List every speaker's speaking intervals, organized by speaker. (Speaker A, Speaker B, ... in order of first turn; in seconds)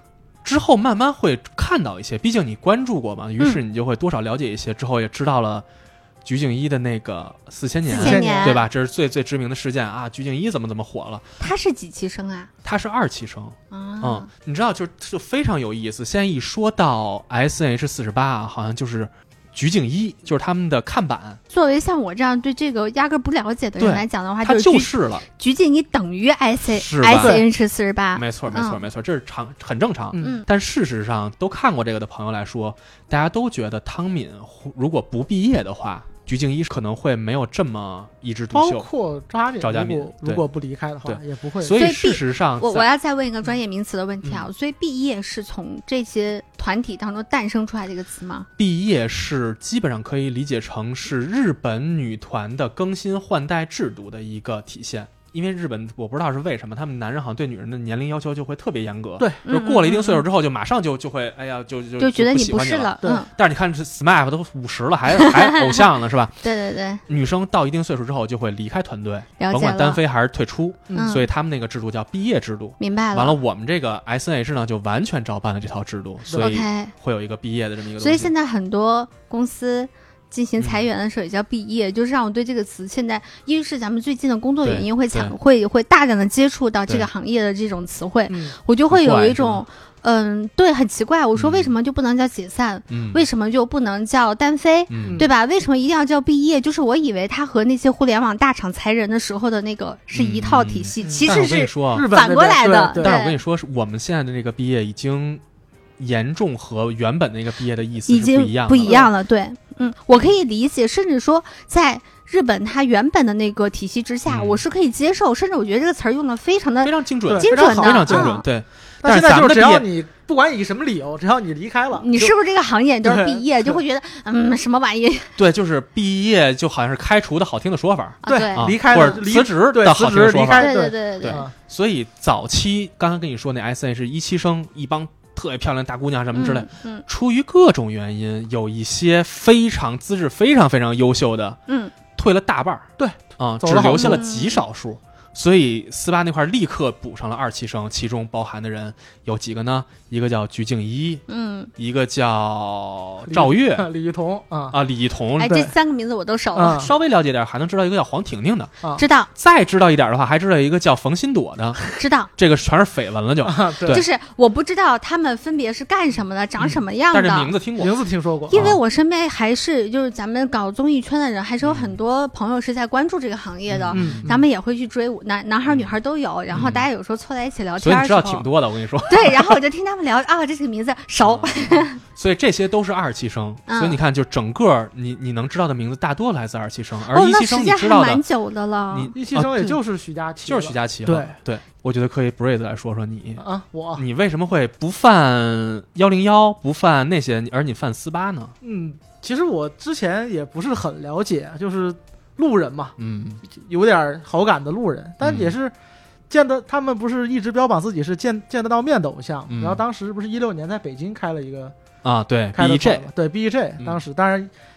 Speaker A: 0.4-5.7, 6.2-11.4, 12.6-21.4, 23.8-25.2, 26.7-27.4, 28.1-38.9, 39.6-40.5, 41.0-42.9, 48.6-66.4, 67.1-78.3, 80.6-80.9, 84.6-85.3, 88.9-89.6, 91.4-91.7, 92.9-93.2, 94.9-95.2, 100.1-102.1, 103.0-105.4, 106.0-109.1, 114.3-114.6, 116.8-119.8, 125.4-141.6, 142.1-151.2, 151.8-153.9, 154.7-155.6, 156.7-158.7, 159.3-161.8, 162.4-164.1, 166.6-168.0, 168.5-168.8, 171.6-171.9, 173.7-174.3, 176.5-176.8, 177.8-179.6, 181.2-188.2, 188.9-189.8, 190.4-193.4, 194.0-198.5, 203.0-203.4, 205.2-205.6, 209.5-209.8, 212.0-213.1
Speaker B: 7.9-8.7, 11.4-12.5, 13.7-14.3, 21.5-28.8, 41.8-48.5, 59.5-60.2, 62.0-63.3, 65.2-65.9, 66.4-67.0, 69.4-70.0, 70.9-71.2, 72.8-73.4, 76.4-76.9, 78.0-103.4, 108.1-118.4, 122.0-125.3, 128.2-129.2, 130.6-131.4, 136.3-137.1, 141.7-141.9, 144.0-144.6, 151.3-151.7, 155.4-156.9, 159.0-159.3, 162.0-162.3, 163.9-167.5, 168.5-178.5, 179.1-182.0, 183.7-184.0, 187.1-189.1
Speaker C: 7.9-8.6, 27.1-27.4, 38.5-41.8, 70.9-71.2, 76.3-76.5, 88.3-88.6, 95.0-95.3, 101.0-101.4, 101.9-103.2, 108.8-109.1, 117.3-118.4, 119.0-122.3, 123.0-123.8, 128.3-131.5, 143.0-144.2, 153.3-154.8, 155.5-155.7, 156.5-156.9, 163.4-164.0, 167.8-168.7, 173.9-174.4, 189.1-191.3, 193.4-194.0, 198.6-202.9, 203.5-205.7, 206.3-211.7, 212.5-214.5